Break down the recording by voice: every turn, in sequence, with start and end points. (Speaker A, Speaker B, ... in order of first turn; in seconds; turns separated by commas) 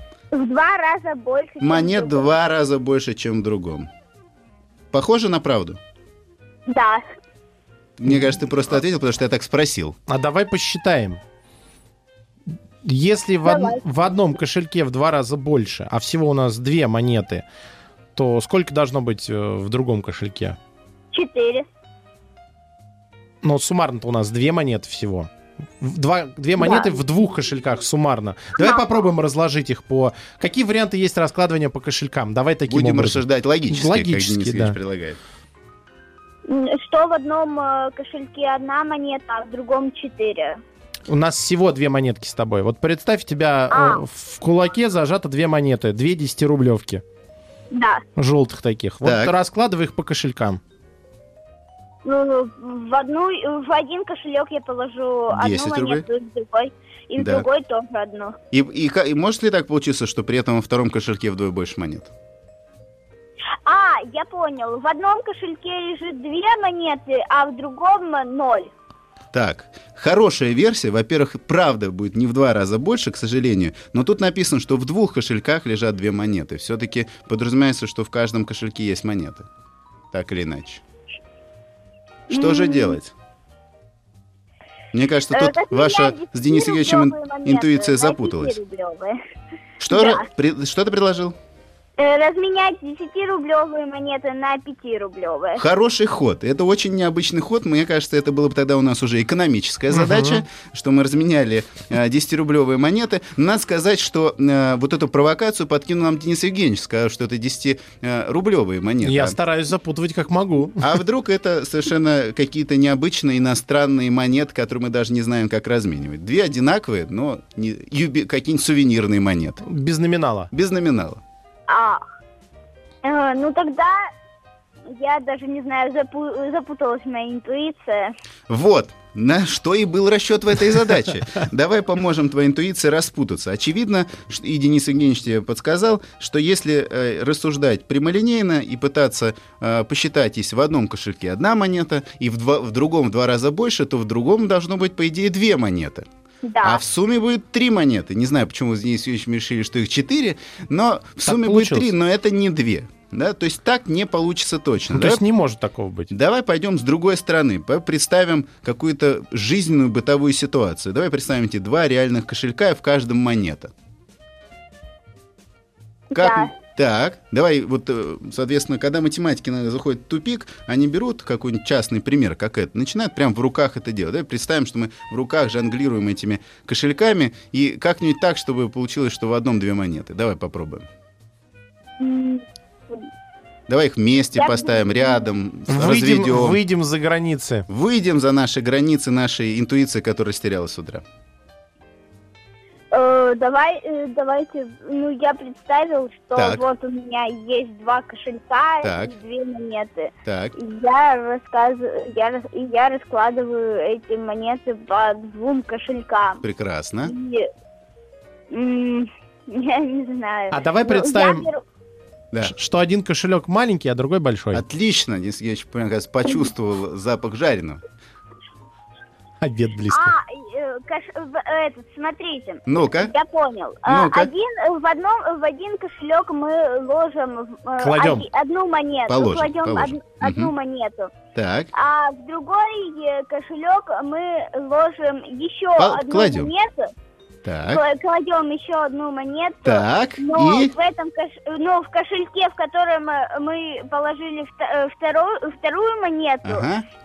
Speaker A: 0.3-2.3, Speaker B: 1.6-3.9, Speaker B: 4.9-5.8, Speaker A: 6.7-7.0, Speaker B: 8.0-9.9, Speaker C: 10.1-11.2, Speaker C: 12.8-17.4, Speaker A: 13.4-13.8, Speaker C: 18.1-20.6, Speaker A: 21.1-21.7, Speaker C: 23.4-34.8, Speaker A: 26.6-26.9, Speaker B: 32.7-35.2, Speaker A: 36.5-40.6, Speaker C: 41.1-47.0, Speaker A: 43.7-44.0, Speaker A: 47.7-48.0, Speaker C: 48.1-50.6, Speaker B: 49.0-49.3, Speaker A: 52.0-58.4, Speaker B: 55.3-56.0, Speaker B: 57.2-57.5, Speaker B: 58.5-62.1, Speaker A: 63.6-68.7, Speaker B: 69.3-79.5, Speaker B: 80.1-80.8, Speaker B: 82.3-83.1, Speaker A: 82.3-83.0, Speaker B: 84.9-88.6, Speaker A: 85.3-89.2, Speaker B: 89.8-91.4, Speaker A: 89.9-90.2, Speaker A: 92.0-95.6, Speaker B: 95.6-109.4, Speaker C: 99.9-100.4, Speaker C: 109.0-110.9, Speaker B: 110.8-119.6, Speaker C: 119.6-120.5, Speaker B: 120.5-121.2, Speaker A: 121.7-122.0, Speaker A: 123.0-124.1, Speaker A: 124.9-128.1, Speaker B: 128.5-146.1, Speaker A: 146.4-146.8, Speaker B: 146.6-155.2, Speaker C: 151.2-151.9, Speaker C: 154.9-156.1, Speaker B: 156.1-163.7, Speaker A: 166.1-166.5, Speaker B: 166.1-180.9, Speaker A: 182.0-183.0, Speaker B: 183.7-186.6, Speaker A: 184.3-185.2, Speaker C: 185.7-187.7, Speaker B: 187.7-191.0, Speaker A: 192.9-206.4, Speaker B: 196.3-196.6, Speaker B: 198.8-199.1, Speaker B: 200.2-200.6, Speaker B: 206.4-207.1, Speaker A: 207.0-207.5, Speaker A: 208.5-211.6, Speaker C: 210.5-211.5, Speaker C: 212.4-214.6, Speaker B: 214.5-217.8, Speaker C: 219.4-220.1, Speaker A: 219.9-231.1, Speaker B: 222.7-223.1, Speaker B: 223.8-224.3, Speaker C: 227.8-228.3, Speaker B: 229.1-230.5, Speaker B: 231.3-231.7, Speaker A: 231.7-236.9, Speaker B: 235.8-236.5, Speaker B: 237.4-237.8, Speaker A: 237.7-246.7, Speaker B: 239.6-240.7, Speaker B: 246.4-246.8